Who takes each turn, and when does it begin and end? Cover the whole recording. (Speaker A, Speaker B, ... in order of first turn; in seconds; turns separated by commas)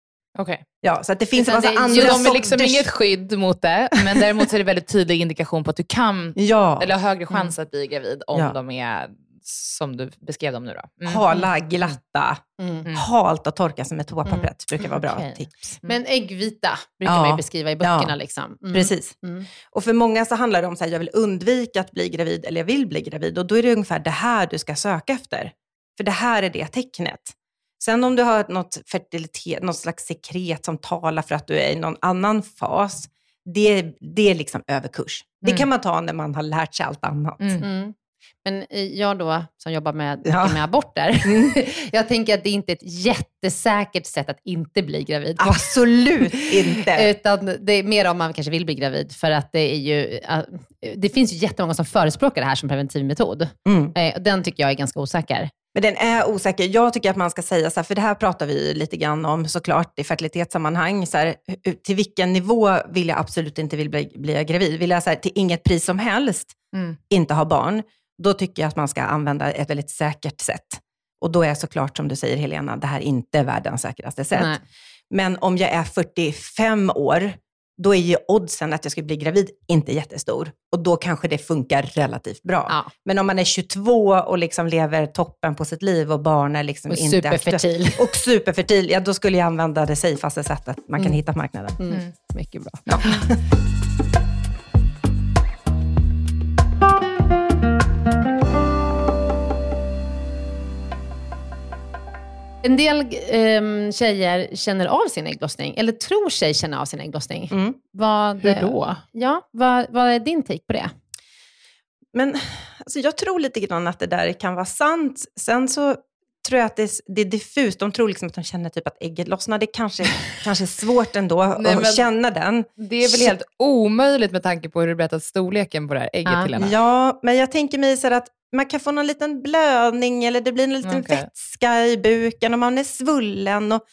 Speaker A: 0.3-0.6, Speaker B: 0.8-2.9, Speaker C: 1.4-2.5, Speaker A: 1.9-11.2, Speaker B: 6.3-7.4, Speaker B: 11.0-15.8, Speaker C: 12.6-12.9, Speaker C: 14.2-15.3, Speaker C: 15.8-19.5, Speaker B: 17.0-18.1, Speaker B: 18.7-37.6, Speaker A: 37.4-37.6, Speaker C: 37.6-55.5, Speaker B: 40.2-40.6, Speaker B: 41.2-41.6, Speaker B: 45.4-47.1, Speaker B: 53.6-53.9, Speaker B: 55.7-66.6, Speaker A: 66.7-67.0, Speaker B: 67.1-74.6, Speaker C: 74.3-74.6, Speaker B: 75.1-91.8, Speaker C: 86.9-88.0, Speaker C: 91.8-92.8, Speaker B: 92.8-93.3, Speaker C: 102.6-110.9, Speaker B: 107.5-107.8, Speaker A: 108.4-109.0, Speaker B: 112.1-123.3, Speaker A: 121.5-122.1, Speaker A: 122.8-126.8, Speaker C: 126.2-126.5, Speaker B: 126.6-133.8, Speaker A: 130.8-131.3